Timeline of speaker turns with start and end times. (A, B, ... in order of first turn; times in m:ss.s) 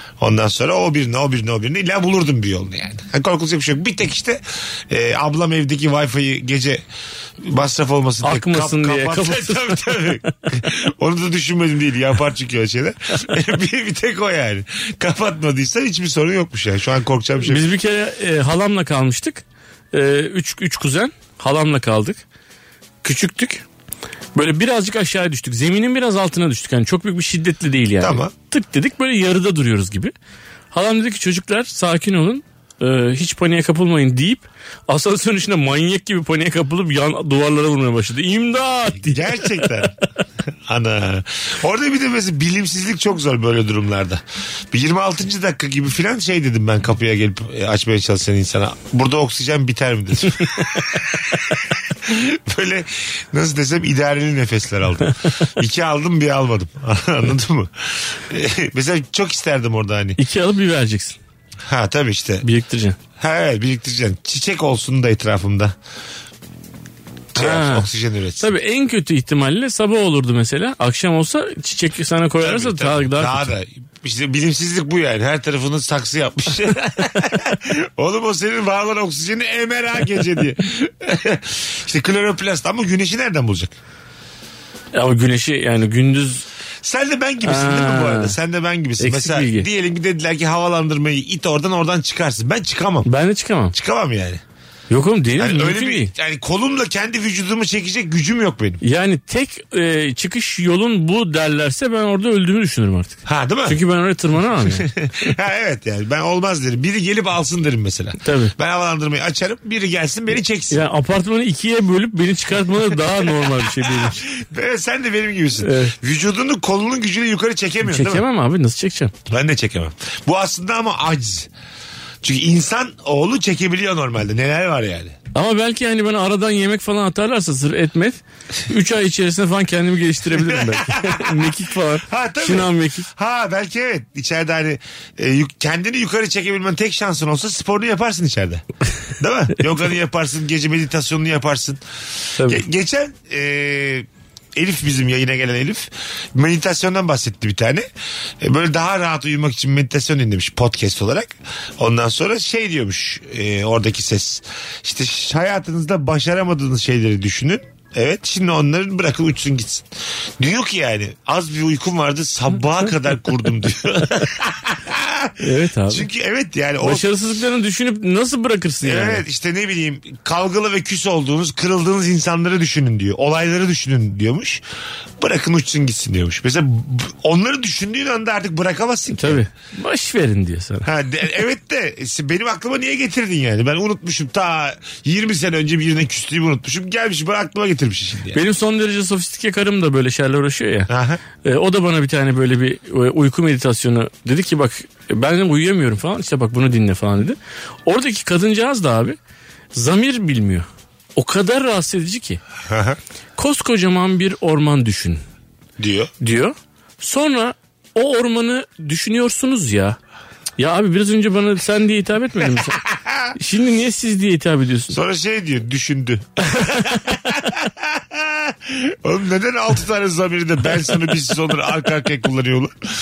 0:00.2-0:06.8 A
0:07.4-0:17.6 A
0:08.2-0:10.2 B
0:17.4-0:22.2 B
0:23.0-0:23.6 B
0:24.3-0:30.1 B
0:28.0-0:28.3 A
0:30.7-0:39.6 B
0:39.0-0:39.9 A
0:40.7-0:51.3 A
0:52.0-1:00.2 A
1:00.2-1:01.2 B
1:01.6-1:02.4 A
1:02.4-1:03.0 B
1:03.2-1:05.7 A
1:07.3-1:08.5 A
1:07.4-1:07.9 B
1:08.4-1:13.5 B
1:12.4-1:23.8 A
1:24.9-1:26.4 B
1:26.8-1:33.1 A
1:27.4-1:28.4 B
1:29.0-1:29.7 B
1:33.0-1:33.7 B
1:33.7-1:34.4 A
1:34.9-1:36.1 B
1:35.4-1:38.8 A
1:38.8-1:44.9 B
1:43.2-1:43.8 A
1:44.6-1:50.8 A
1:48.2-1:48.5 B
1:50.7-1:54.2 B
1:53.4-1:58.2 A
1:55.6-1:55.9 B
1:57.8-1:59.1 B
1:59.3-2:01.5 A
2:02.2-2:05.1 A
2:05.3-2:13.0 B
2:10.5-2:11.5 A
2:12.1-2:18.6 A
2:19.2-2:21.8 A
2:22.4-2:27.9 A
2:28.4-2:39.8 A
2:40.4-2:45.3 A
2:45.4-2:46.1 B
2:45.9-2:47.1 A
2:46.8-2:49.2 B
2:48.8-2:54.6 A
2:55.2-2:59.4 A
2:59.1-3:00.9 B
3:00.8-3:08.4 A
3:08.3-3:10.9 B
3:10.9-3:11.2 A
3:11.4-3:19.2 B
3:19.7-3:22.4 B
3:22.7-3:23.0 A
3:23.4-3:25.2 B
3:25.8-3:26.1 A
3:26.2-3:30.0 B
3:30.6-3:32.8 B
3:32.9-3:33.3 A
3:33.4-3:35.0 B
3:34.9-3:42.7 A
3:36.6-3:36.9 B